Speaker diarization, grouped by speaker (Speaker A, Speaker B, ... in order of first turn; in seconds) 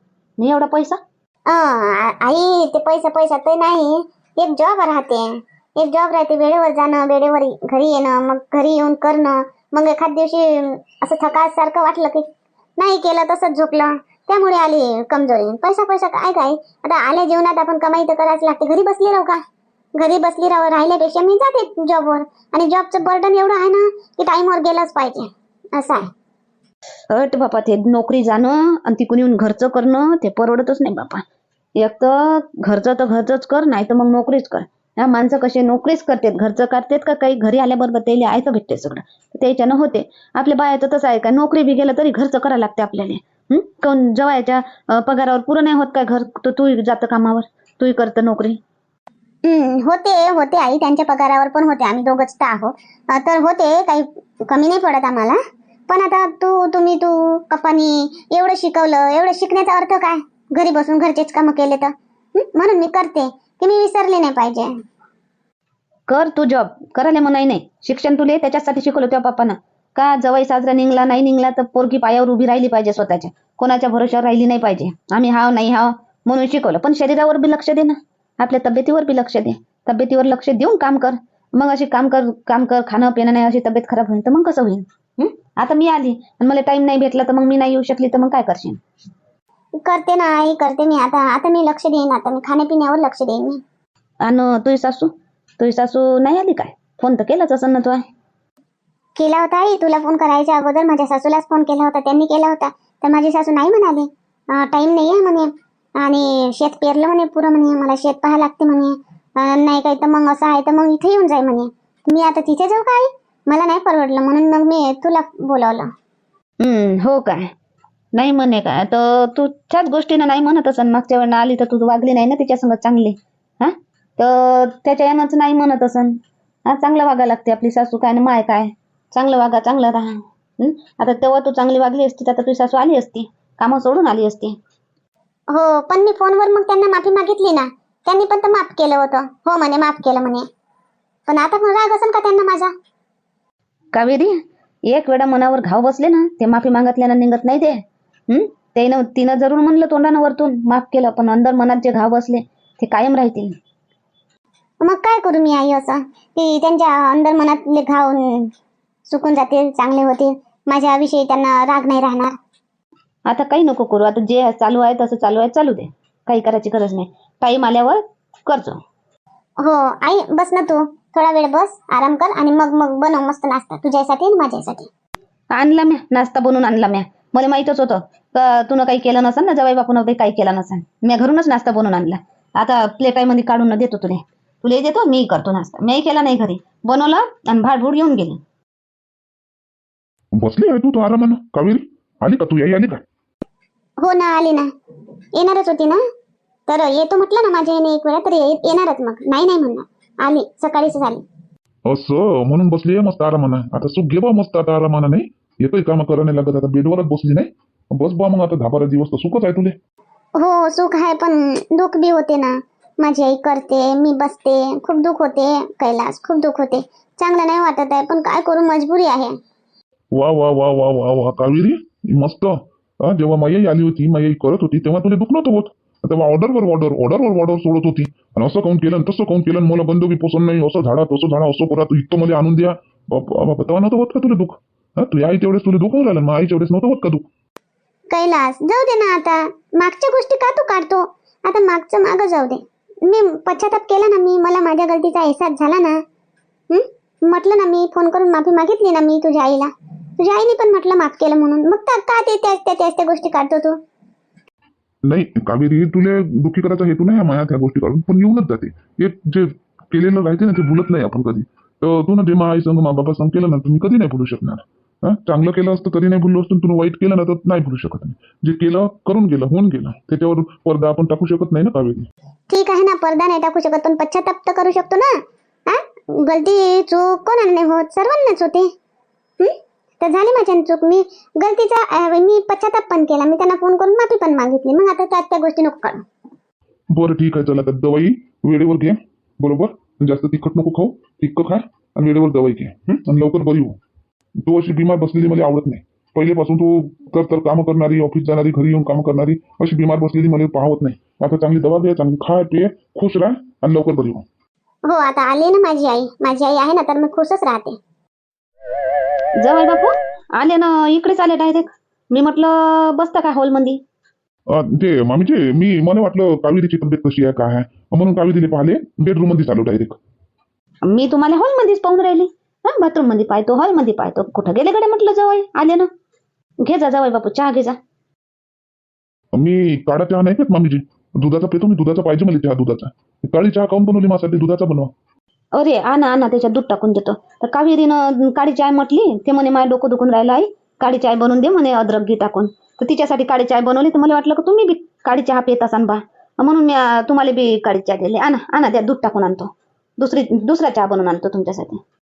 Speaker A: 0.4-1.0, 27.1-31.2, 31.8-48.6, 66.1-88.8, 94.2-98.0, 116.6-117.5, 118.1-134.6, 143.9-144.3, 144.9-153.6, 163.3-168.8, 175.5-188.4, 309.4-313.8, 320.9-325.9, 326.6-327.8, 335.6-351.8
Speaker B: 1.5-12.2, 12.8-19.4, 20.0-26.1, 49.4-64.7, 89.8-93.6, 99.2-115.9, 135.5-140.4, 141.3-142.7, 154.8-158.5, 159.1-162.3, 169.6-174.9, 194.0-194.7, 195.3-196.0, 196.7-201.2, 210.4-219.3, 238.1-246.0, 246.7-253.8, 272.5-278.7, 279.4-286.0, 304.9-307.8
Speaker C: 190.4-193.0, 201.8-209.8, 220.1-237.2, 255.1-272.1, 286.9-293.8, 294.4-304.2, 314.5-320.0, 329.3-334.9